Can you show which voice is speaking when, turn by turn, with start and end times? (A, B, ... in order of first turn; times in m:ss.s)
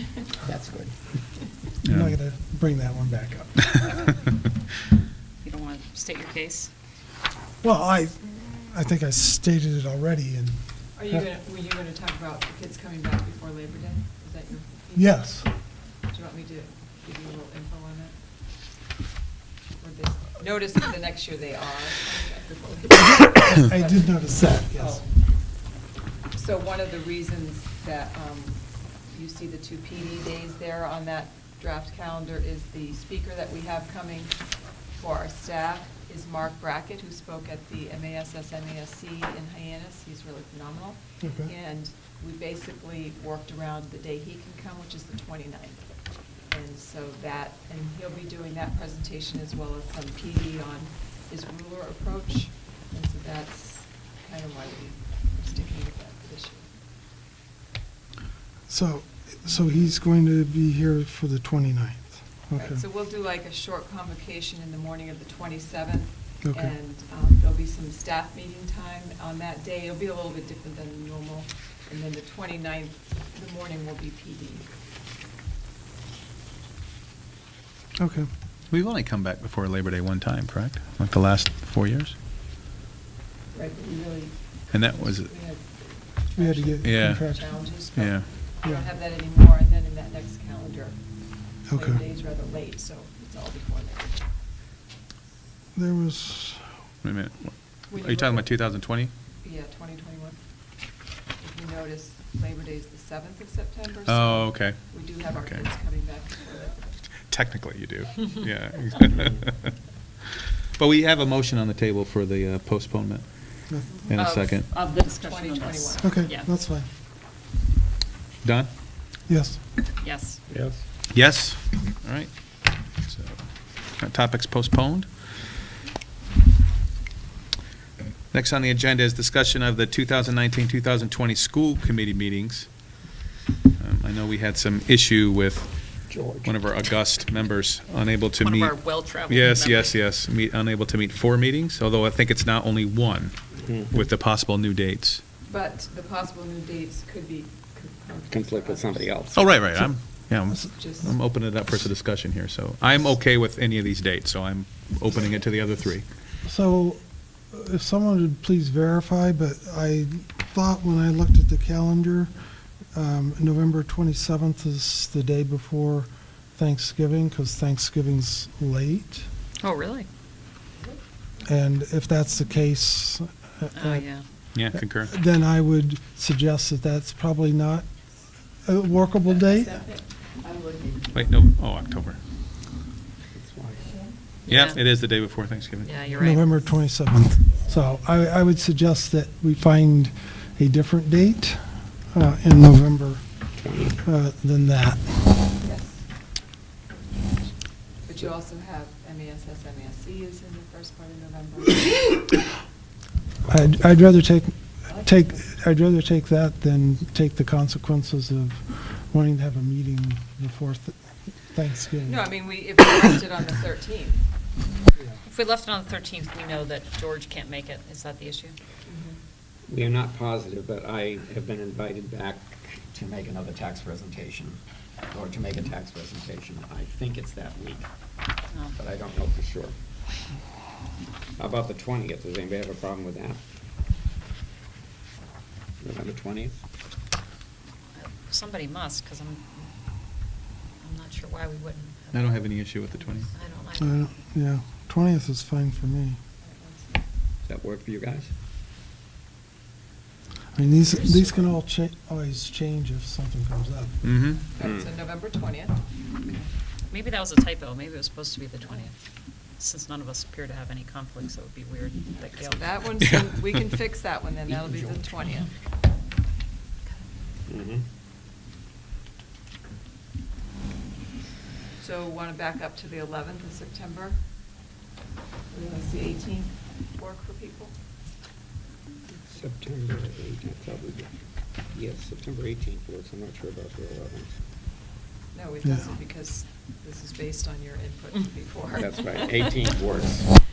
0:00.4-0:00.9 A
0:01.8-0:04.1 B
0:01.8-0:02.1 C
0:05.4-0:06.7 D
0:07.6-0:10.6 B
0:11.0-0:15.3 E
0:15.0-0:15.5 B
0:16.1-0:18.2 E
0:19.8-0:24.1 E
0:23.2-0:25.0 B
0:24.7-0:25.1 E
0:26.3-0:34.4 E
0:34.9-0:45.9 E
0:41.2-0:41.5 B
0:46.5-0:56.7 E
0:58.7-1:02.8 B
1:02.5-1:14.6 E
1:06.4-1:06.7 B
1:18.0-1:18.3 B
1:18.7-1:22.2 C
1:23.5-1:34.3 E
1:24.7-1:25.3 C
1:26.4-1:28.1 B
1:26.8-1:27.2 C
1:28.0-1:28.3 C
1:31.7-1:32.0 B
1:35.8-1:36.6 B
1:37.0-1:39.1 C
1:37.9-1:38.5 E
1:39.4-1:40.4 E
1:41.4-1:47.0 E
1:44.1-1:44.9 C
1:47.2-1:49.7 C
1:50.8-1:53.3 C
1:54.1-1:54.7 C
1:54.1-1:56.5 D
1:55.2-1:56.2 E
1:56.0-1:56.9 B
1:58.4-1:58.7 C
1:59.3-1:59.6 B
2:00.0-2:00.4 D
2:00.5-2:00.8 A
2:01.1-2:02.3 C
2:03.0-2:03.4 C
2:04.0-2:05.1 C
2:08.3-2:12.7 C
2:13.8-2:15.7 C
2:16.1-2:16.5 A
2:16.4-2:23.4 C
2:18.4-2:19.9 D
2:23.6-2:23.9 A
2:23.9-2:25.2 C
2:25.5-2:29.7 E
2:28.3-2:29.5 A
2:29.4-2:36.1 C
2:30.7-2:31.1 E
2:36.4-2:42.3 B
2:42.9-2:49.3 B
2:49.6-2:50.1 D
2:51.4-2:54.1 B
2:53.7-2:54.3 D
2:54.5-2:55.1 C
2:54.7-2:57.9 B
2:58.6-2:59.9 B
3:01.1-3:02.2 C
3:03.3-3:03.9 A
3:04.5-3:04.8 D
3:04.5-3:05.9 C
3:05.8-3:06.6 D
3:06.2-3:13.2 B
3:13.6-3:14.0 A
3:14.0-3:15.2 B
3:15.6-3:16.0 E
3:18.0-3:21.9 E
3:23.5-3:32.3 B
3:32.1-3:34.2 E
3:35.3-3:38.6 D
3:38.9-3:39.1 E
3:39.7-3:44.6 A
3:45.1-3:47.9 A
3:48.5-3:48.8 D
3:48.8-3:49.8 A
3:51.4-3:53.4 A
3:55.8-3:56.6 A
3:58.0-3:59.7 D
4:00.8-4:02.5 D
4:02.1-4:03.3 C
4:03.3-4:04.1 D
4:03.8-4:06.2 B
4:06.4-4:07.0 E
4:07.4-4:08.3 A
4:10.6-4:14.0 B
4:10.6-4:11.4 D
4:14.0-4:14.5 C
4:14.5-4:16.4 E
4:14.6-4:14.8 A
4:16.9-4:19.0 D
4:19.6-4:22.8 D
4:22.3-4:25.5 E
4:24.5-4:25.0 A
4:27.5-4:27.8 A
4:31.8-4:34.2 E
4:35.5-4:37.8 E
4:39.1-4:41.1 A
4:41.7-4:44.3 A
4:45.3-4:49.5 E
4:48.8-4:50.3 A